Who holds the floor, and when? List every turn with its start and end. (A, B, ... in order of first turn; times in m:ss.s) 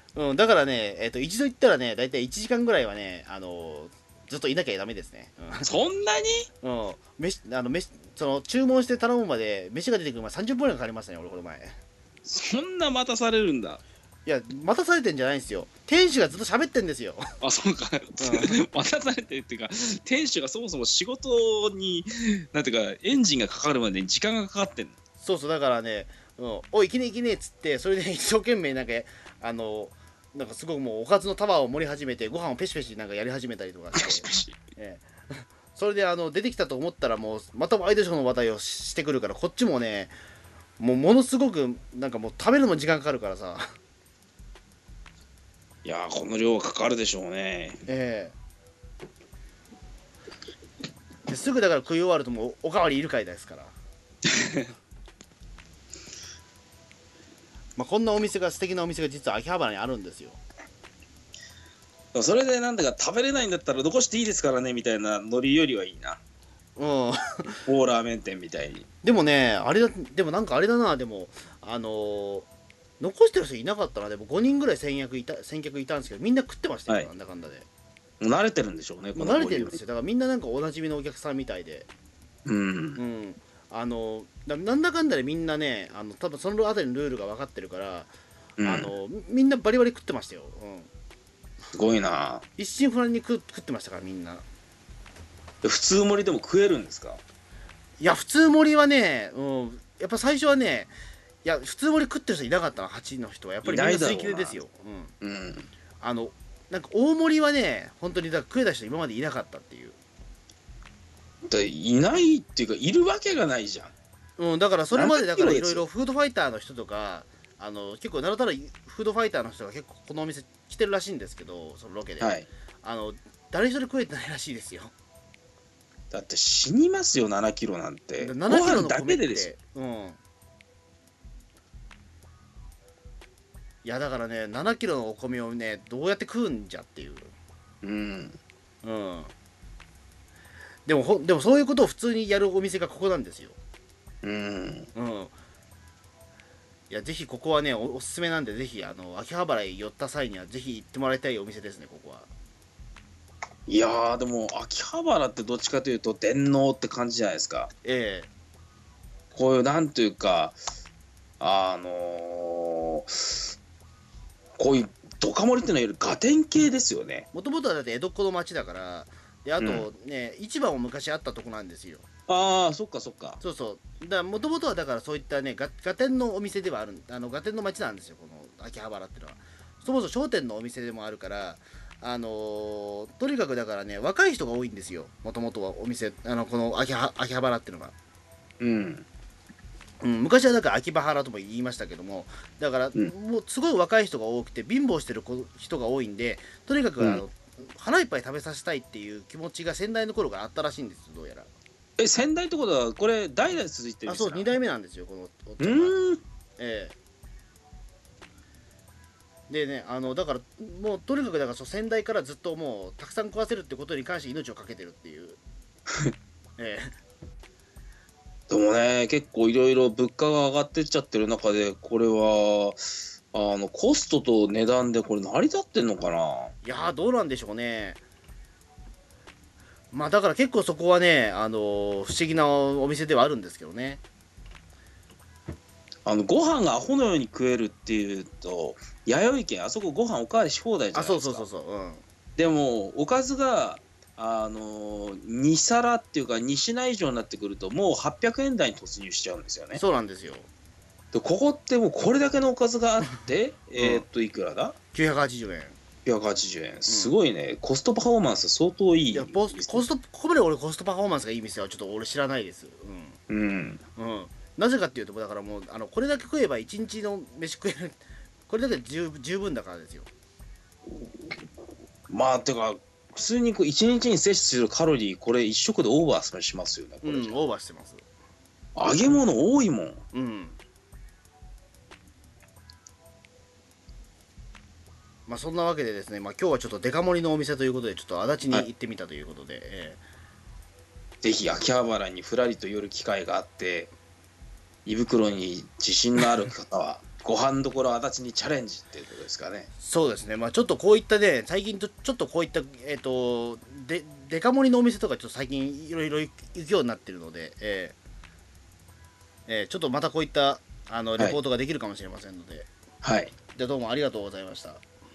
0:00.2-0:05.7 A
0:05.6-0:06.5 B
0:06.6-0:11.7 A
0:12.2-0:13.8 B
0:14.3-0:17.2 A
0:17.4-0:25.0 B
0:18.2-0:18.6 A
0:25.2-0:40.1 A
0:34.0-0:34.6 B
0:40.8-0:43.7 A
0:45.8-0:47.8 B
0:47.9-0:48.4 A
0:51.3-0:53.7 A
0:54.3-0:54.7 B
0:57.8-1:00.4 A
1:02.1-1:06.2 B
1:06.8-1:07.6 A
1:07.7-1:08.9 B
1:09.0-1:12.5 A
1:13.0-1:17.7 A
1:18.2-1:19.8 B
1:19.2-1:21.9 A
1:22.5-1:23.0 B
1:23.0-1:28.1 A
1:28.6-1:28.9 B
1:28.6-1:30.9 A
1:31.7-1:32.4 B
1:32.6-1:34.4 A
1:35.6-1:37.2 B
1:38.0-1:40.9 A
1:41.4-1:45.1 A
1:43.6-1:44.6 B
1:45.2-1:45.7 B
1:46.0-1:50.0 A
1:51.5-1:53.9 B
1:54.4-2:04.9 A
1:54.9-1:55.8 B
2:02.2-2:02.5 B
2:06.1-2:09.5 B
2:08.2-2:10.2 A
2:13.8-2:17.3 A
2:17.8-2:18.4 B
2:18.8-2:19.3 A
2:20.9-2:23.6 A
2:24.2-2:24.9 B
2:25.0-2:25.3 A
2:26.9-2:32.3 A
2:33.7-2:37.7 B
2:37.8-2:38.3 A
2:39.3-2:40.6 B
2:41.4-2:43.5 B
2:44.6-2:47.3 B
2:47.3-2:52.1 A
2:49.6-2:49.9 B
2:52.3-2:53.4 B
2:53.4-3:07.9 A
3:08.6-3:09.1 B
3:10.0-3:21.5 A
3:22.0-3:24.5 B
3:24.1-3:26.0 A
3:25.6-3:26.2 B
3:26.6-3:27.0 A
3:29.5-3:35.4 A
3:36.6-3:37.0 A
3:38.5-3:46.5 B
3:46.6-3:48.0 A
3:49.9-3:54.0 A
3:56.0-4:01.5 B
4:00.9-4:02.0 A
4:02.4-4:09.8 B
4:09.8-4:10.5 A
4:11.1-4:14.8 B
4:13.8-4:14.0 A
4:14.9-4:15.8 A
4:16.1-4:19.9 B
4:16.9-4:17.1 A
4:19.1-4:23.2 A
4:23.3-4:23.8 B
4:24.0-4:30.1 A
4:32.1-4:37.4 B
4:37.0-4:38.0 A
4:38.8-4:40.0 B
4:40.1-4:40.6 A
4:45.3-4:50.0 A
4:51.2-4:53.9 B
4:54.8-4:59.7 B
4:59.8-5:08.0 A
5:09.5-5:12.7 A
5:13.0-5:13.4 B
5:13.6-5:14.8 A